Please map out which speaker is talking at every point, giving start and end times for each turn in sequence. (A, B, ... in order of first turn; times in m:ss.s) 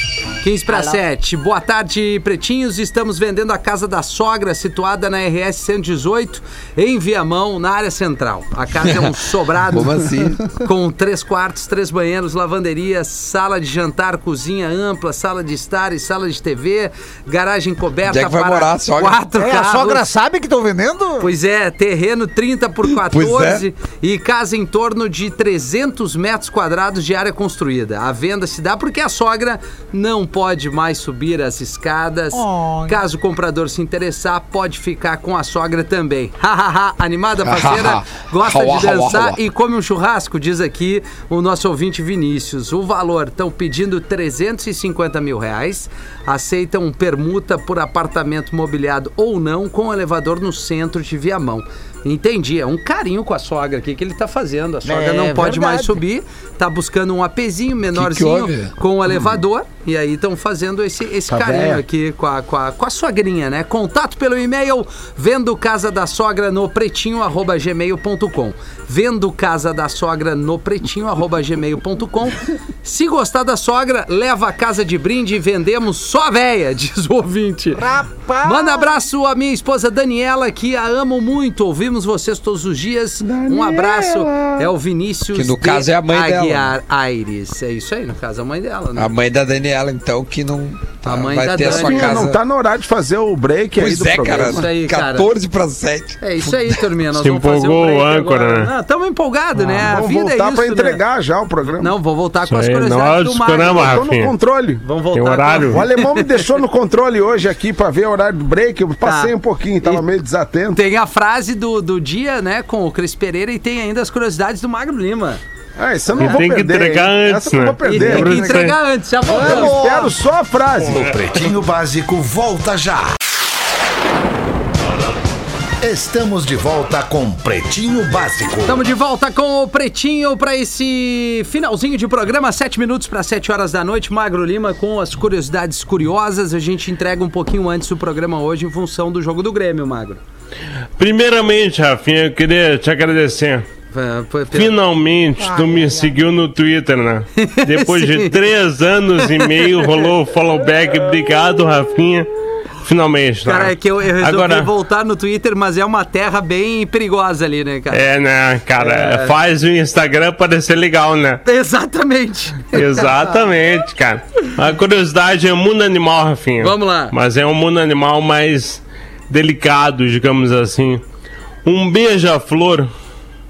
0:00.4-0:20.1 A
0:00.7-0:01.0 B
0:09.7-0:10.5 C
0:18.1-0:19.2 C
0:19.4-0:21.3 B
0:21.2-1:17.9 A
0:23.0-0:23.6 C
0:32.3-0:33.0 B
0:37.4-0:39.4 C
0:54.8-0:56.0 B
0:58.0-0:58.7 C
1:01.3-1:01.8 D
1:17.7-1:19.0 B
1:18.4-1:29.1 A
1:23.2-1:24.7 D
1:25.4-1:26.7 C
1:29.0-1:32.4 C
1:31.0-1:32.3 A
1:31.6-1:34.7 D
1:33.7-1:36.8 C
1:34.3-1:35.3 A
1:36.2-1:41.0 A
1:37.1-1:38.7 E
1:39.6-1:41.9 D
1:41.8-1:44.0 A
1:42.5-1:44.3 E
1:43.8-1:44.8 D
1:44.8-1:46.5 A
1:45.1-1:45.8 E
1:45.7-1:50.8 D
1:49.0-1:50.1 A
1:50.7-1:55.4 A
1:55.8-1:58.6 D
1:56.2-1:58.8 E
1:57.8-2:00.1 A
1:59.2-2:00.2 B
1:59.3-2:01.1 D
2:00.9-2:03.1 F
2:05.8-2:08.8 F
2:08.6-2:20.2 A
2:21.0-2:23.7 E
2:23.9-2:24.8 A
2:24.5-2:34.7 E
2:25.4-2:26.1 B
2:27.4-2:28.5 A
2:29.2-2:30.1 A
2:33.4-2:38.1 A
2:37.9-2:41.4 E
2:38.8-2:39.3 A
2:41.4-2:43.3 A
2:42.7-2:51.0 E
2:46.6-2:47.1 A
2:51.6-2:52.9 E